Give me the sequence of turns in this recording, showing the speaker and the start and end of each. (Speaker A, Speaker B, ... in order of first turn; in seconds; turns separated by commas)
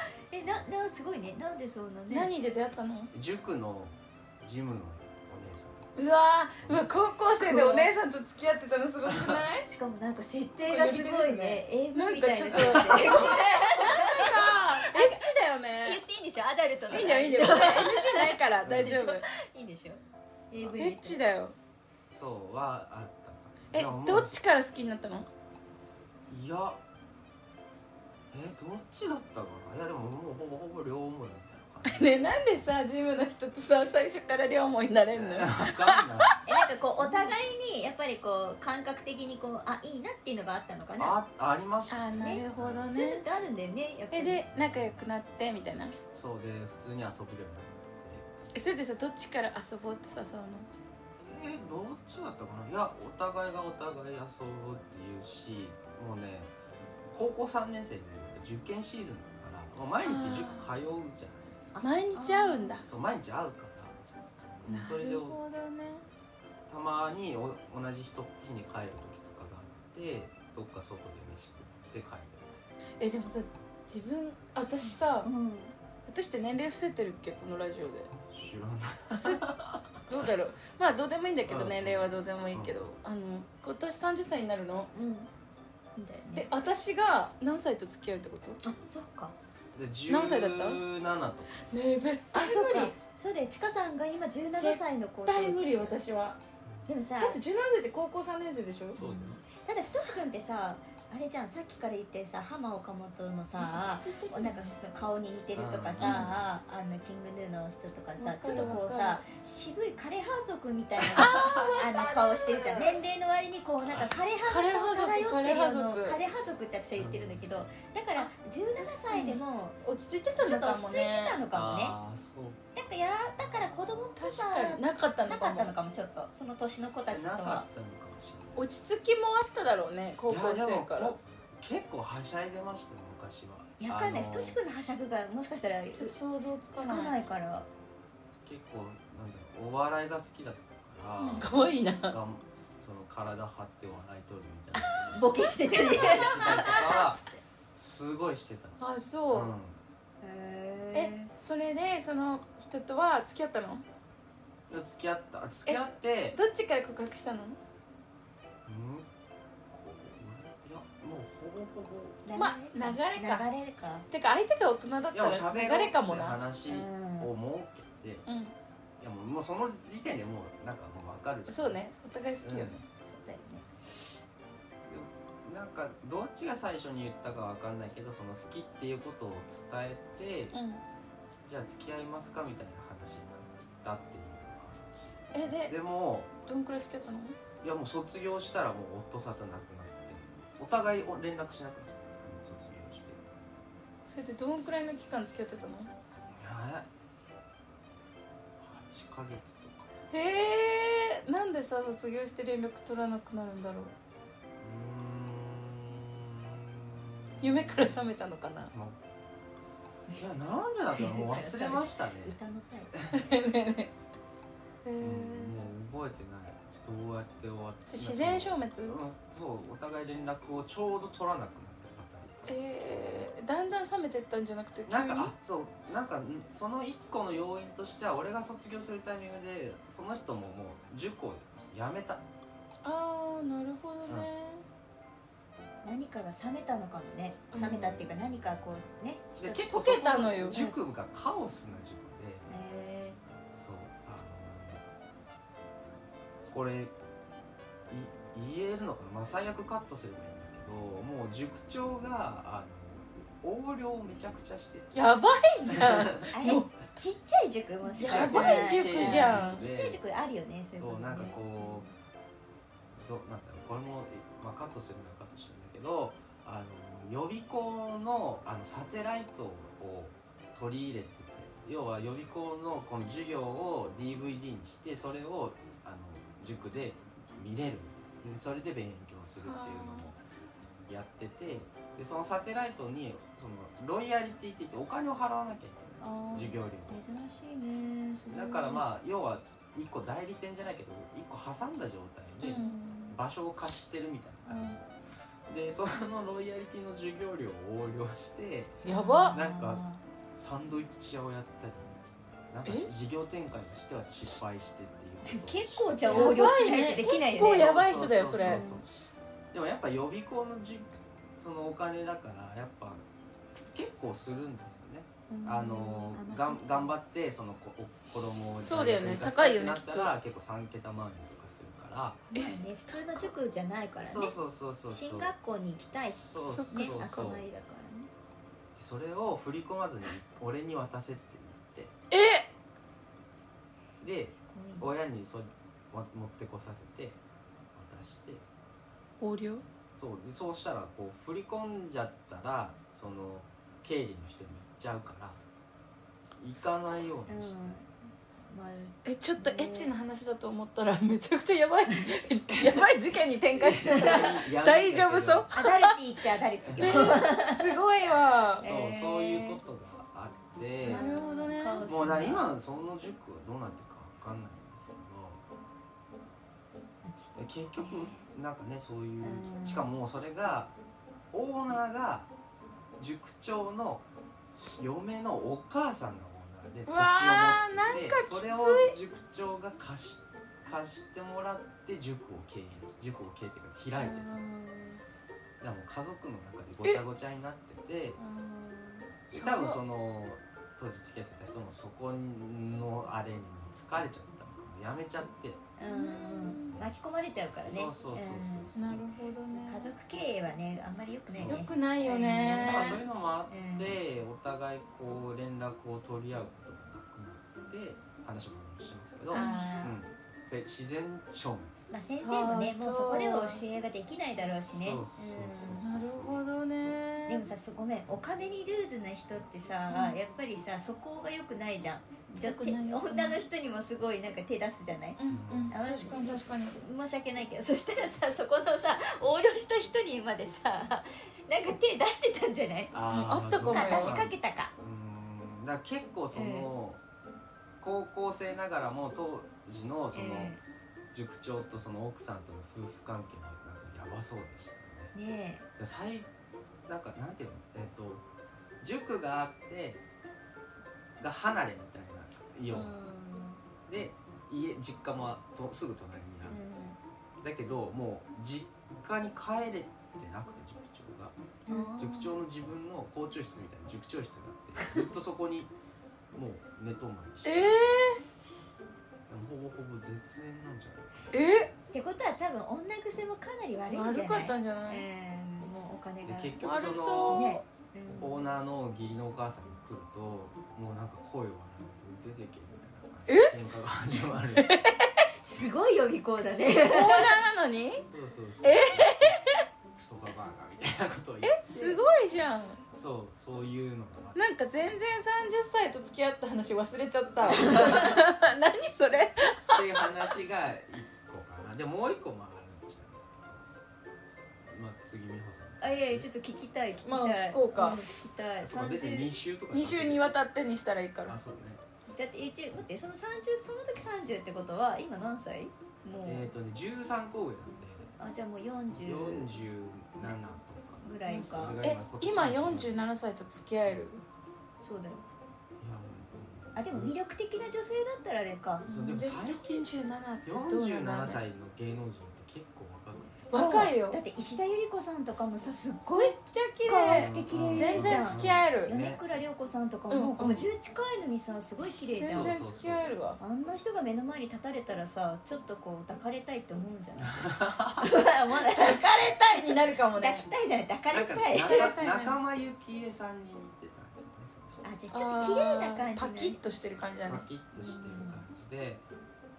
Speaker A: 0.3-2.3, Speaker B: 2.1-3.1, Speaker C: 3.1-5.9, Speaker B: 6.0-9.7, Speaker C: 6.6-7.1, Speaker A: 7.4-7.9, Speaker C: 9.1-9.4, Speaker A: 9.7-15.3, Speaker B: 10.6-16.0, Speaker C: 12.8-13.1, Speaker A: 15.8-21.2, Speaker B: 16.9-19.2, Speaker C: 18.6-19.0, Speaker B: 20.8-21.6, Speaker C: 22.1-24.4, Speaker B: 23.7-25.3, Speaker C: 26.3-26.8, Speaker C: 28.3-32.3, Speaker B: 31.8-36.5, Speaker C: 35.1-36.3, Speaker A: 36.5-41.2, Speaker B: 37.0-37.3, Speaker C: 41.0-42.9, Speaker B: 41.9-43.2, Speaker A: 42.2-44.4, Speaker B: 44.1-46.0, Speaker C: 44.5-45.0, Speaker C: 46.1-48.5, Speaker B: 48.5-50.7, Speaker C: 51.2-56.5, Speaker C: 57.1-61.8, Speaker B: 60.0-60.7, Speaker A: 61.8-62.8, Speaker B: 61.8-62.9, Speaker C: 62.8-64.0, Speaker C: 64.6-65.4, Speaker B: 64.7-66.0, Speaker C: 66.7-72.6, Speaker B: 73.0-75.3, Speaker A: 75.2-75.8, Speaker B: 76.1-78.1, Speaker C: 78.3-80.3, Speaker B: 79.1-79.4, Speaker B: 80.1-84.9, Speaker C: 81.5-82.9, Speaker A: 84.9-85.3, Speaker A: 86.0-86.5, Speaker B: 86.3-88.6, Speaker A: 88.6-89.3, Speaker C: 89.7-91.5, Speaker B: 90.1-90.8, Speaker B: 91.7-93.0, Speaker A: 92.3-96.0, Speaker B: 94.6-96.4, Speaker A: 96.9-97.4, Speaker B: 97.2-99.0, Speaker C: 98.9-99.4, Speaker A: 99.0-119.8, Speaker B: 103.5-104.7, Speaker C: 105.5-106.5, Speaker B: 106.0-106.3, Speaker B: 108.2-109.2, Speaker C: 108.5-108.9, Speaker B: 111.2-113.0, Speaker C: 111.3-111.7, Speaker B: 114.5-116.2, Speaker C: 117.0-117.7, Speaker B: 118.2-121.4, Speaker A: 120.4-122.0, Speaker C: 121.5-122.6, Speaker A: 122.8-127.7, Speaker B: 124.2-125.7, Speaker C: 127.1-128.7, Speaker B: 128.6-131.1, Speaker C: 130.3-134.6, Speaker A: 133.8-136.2, Speaker B: 136.0-137.2, Speaker A: 136.8-137.7, Speaker C: 138.4-141.5, Speaker B: 141.2-142.2, Speaker C: 142.1-148.8, Speaker A: 145.1-146.9, Speaker B: 146.1-146.8, Speaker B: 148.8-149.5, Speaker C: 149.3-149.8, Speaker A: 150.2-151.3, Speaker B: 150.9-153.8, Speaker C: 154.7-156.4, Speaker B: 155.7-157.6, Speaker C: 158.7-159.1, Speaker C: 159.7-162.2, Speaker A: 162.2-164.1, Speaker B: 162.3-163.5, Speaker B: 164.1-166.4, Speaker C: 165.1-168.2, Speaker A: 166.7-167.3, Speaker B: 168.3-168.5, Speaker C: 169.0-171.8, Speaker B: 171.5-172.9, Speaker C: 172.4-172.8, Speaker A: 173.0-173.7, Speaker C: 174.9-180.6, Speaker B: 180.5-180.8, Speaker C: 181.4-186.3, Speaker B: 185.3-185.8, Speaker B: 186.4-187.4, Speaker C: 187.6-193.4, Speaker B: 194.1-195.9, Speaker C: 196.3-196.9, Speaker C: 198.6-199.9, Speaker B: 200.1-203.9, Speaker C: 204.6-208.1, Speaker B: 207.4-208.7, Speaker C: 208.7-209.0, Speaker C: 210.2-212.4, Speaker A: 211.0-213.0, Speaker C: 212.9-213.2, Speaker B: 213.1-213.9, Speaker B: 214.8-215.6, Speaker C: 215.0-223.3, Speaker B: 217.9-219.0, Speaker B: 222.5-225.3, Speaker C: 224.9-232.2, Speaker B: 232.8-234.6, Speaker A: 235.8-239.3, Speaker B: 237.5-237.8, Speaker C: 237.5-238.4, Speaker C: 239.4-242.5, Speaker B: 239.4-240.6, Speaker A: 240.5-240.8, Speaker A: 242.5-243.2, Speaker C: 243.5-244.8, Speaker C: 246.5-246.9, Speaker C: 247.9-255.0, Speaker B: 254.9-256.7, Speaker C: 255.7-256.3, Speaker A: 256.3-261.9, Speaker B: 257.9-259.6, Speaker C: 258.0-260.0, Speaker C: 260.8-261.9, Speaker C: 262.9-280.2, Speaker B: 279.4-280.1, Speaker C: 280.9-287.0, Speaker A: 286.0-288.8, Speaker C: 288.3-302.0, Speaker B: 292.4-292.8, Speaker A: 292.6-293.1, Speaker A: 294.5-294.8, Speaker B: 298.8-299.4, Speaker A: 298.9-300.0, Speaker C: 302.5-306.4, Speaker B: 302.6-302.9, Speaker A: 305.3-307.7, Speaker B: 306.0-308.6, Speaker C: 307.4-308.9, Speaker A: 308.4-308.8, Speaker C: 309.5-313.0, Speaker C: 313.6-322.3, Speaker A: 315.3-316.9, Speaker B: 318.6-320.1, Speaker B: 322.3-323.3, Speaker A: 322.3-324.4, Speaker C: 324.0-325.3, Speaker A: 324.9-328.1, Speaker C: 326.0-327.4, Speaker B: 326.5-327.3, Speaker C: 328.8-331.9, Speaker B: 332.1-332.5, Speaker C: 334.0-337.2, Speaker A: 334.3-334.9, Speaker C: 337.7-338.4, Speaker B: 339.2-339.6, Speaker C: 339.9-345.4, Speaker C: 346.4-347.7, Speaker A: 347.3-349.9, Speaker B: 349.1-355.9, Speaker C: 352.6-352.8, Speaker C: 353.5-355.5, Speaker A: 354.0-354.3, Speaker A: 355.5-357.8, Speaker C: 356.7-357.2, Speaker B: 356.8-358.6, Speaker C: 358.6-361.1, Speaker A: 358.6-359.6, Speaker B: 360.9-361.9, Speaker A: 360.9-362.5, Speaker C: 361.9-365.4, Speaker A: 367.0-368.2, Speaker C: 367.4-370.7, Speaker A: 369.2-369.9, Speaker C: 371.3-372.3, Speaker C: 373.0-374.0, Speaker C: 374.8-384.4, Speaker B: 376.9-378.9, Speaker A: 384.0-385.0, Speaker C: 385.6-388.2, Speaker A: 388.2-389.1, Speaker B: 389.3-389.8, Speaker C: 389.4-395.6, Speaker A: 395.8-398.7, Speaker B: 395.9-396.8, Speaker C: 397.7-399.1, Speaker B: 398.8-399.9, Speaker A: 399.7-404.0, Speaker C: 401.3-401.7, Speaker B: 401.4-403.0, Speaker C: 402.6-411.9, Speaker A: 409.3-410.0, Speaker B: 409.3-409.7, Speaker A: 411.9-415.9, Speaker B: 412.2-413.6, Speaker C: 414.4-416.4, Speaker B: 415.8-417.4, Speaker A: 417.3-425.2, Speaker B: 419.9-420.2, Speaker B: 422.3-423.4, Speaker B: 425.2-426.8, Speaker C: 425.3-425.8, Speaker A: 425.7-433.0, Speaker C: 432.9-437.0, Speaker B: 433.1-434.2, Speaker A: 433.7-434.7, Speaker A: 436.3-436.7, Speaker C: 437.8-440.6, Speaker A: 440.1-440.6, Speaker C: 441.1-445.1, Speaker A: 445.1-445.7, Speaker C: 445.8-446.3, Speaker C: 446.9-448.2, Speaker C: 448.8-450.0, Speaker C: 451.2-452.9, Speaker A: 452.7-453.6, Speaker C: 453.9-456.8, Speaker A: 456.5-457.0, Speaker C: 457.4-461.3, Speaker A: 461.7-462.3, Speaker B: 461.7-462.0, Speaker C: 462.0-465.7, Speaker C: 466.3-467.8, Speaker B: 467.4-468.2, Speaker C: 469.3-471.7, Speaker B: 471.3-471.7, Speaker A: 471.9-476.6, Speaker B: 473.9-475.0, Speaker C: 476.2-477.5, Speaker B: 476.6-477.6, Speaker A: 477.3-478.4, Speaker C: 478.2-484.9, Speaker B: 483.3-483.6, Speaker B: 484.5-485.2, Speaker A: 485.4-487.4, Speaker B: 486.6-488.1, Speaker C: 488.1-489.4, Speaker B: 488.6-489.6, Speaker C: 489.9-492.0, Speaker B: 491.4-492.8, Speaker C: 492.9-494.4, Speaker B: 494.4-500.3, Speaker C: 497.6-498.1, Speaker C: 499.7-503.7, Speaker C: 504.6-506.3, Speaker A: 505.8-509.3, Speaker B: 507.1-508.0, Speaker C: 508.6-510.2, Speaker B: 509.7-511.4, Speaker C: 511.3-511.8, Speaker A: 512.1-516.5, Speaker C: 516.2-518.1, Speaker A: 518.2-519.5, Speaker C: 518.9-523.0, Speaker A: 521.0-521.8, Speaker B: 521.3-524.2, Speaker A: 524.8-525.2, Speaker C: 525.8-527.1, Speaker A: 526.8-528.9, Speaker C: 528.8-533.6, Speaker B: 528.9-531.4, Speaker B: 533.5-534.2, Speaker A: 533.5-542.6, Speaker B: 536.1-539.0, Speaker C: 537.1-539.2, Speaker B: 540.1-540.6, Speaker C: 540.4-540.7, Speaker B: 542.1-543.4, Speaker C: 542.3-543.1, Speaker A: 543.4-549.0, Speaker C: 547.2-548.1, Speaker B: 548.7-550.5, Speaker A: 550.2-552.0, Speaker C: 551.1-554.8, Speaker B: 551.6-552.4, Speaker A: 554.8-556.6, Speaker B: 555.1-557.5, Speaker C: 557.3-559.0, Speaker A: 557.8-558.4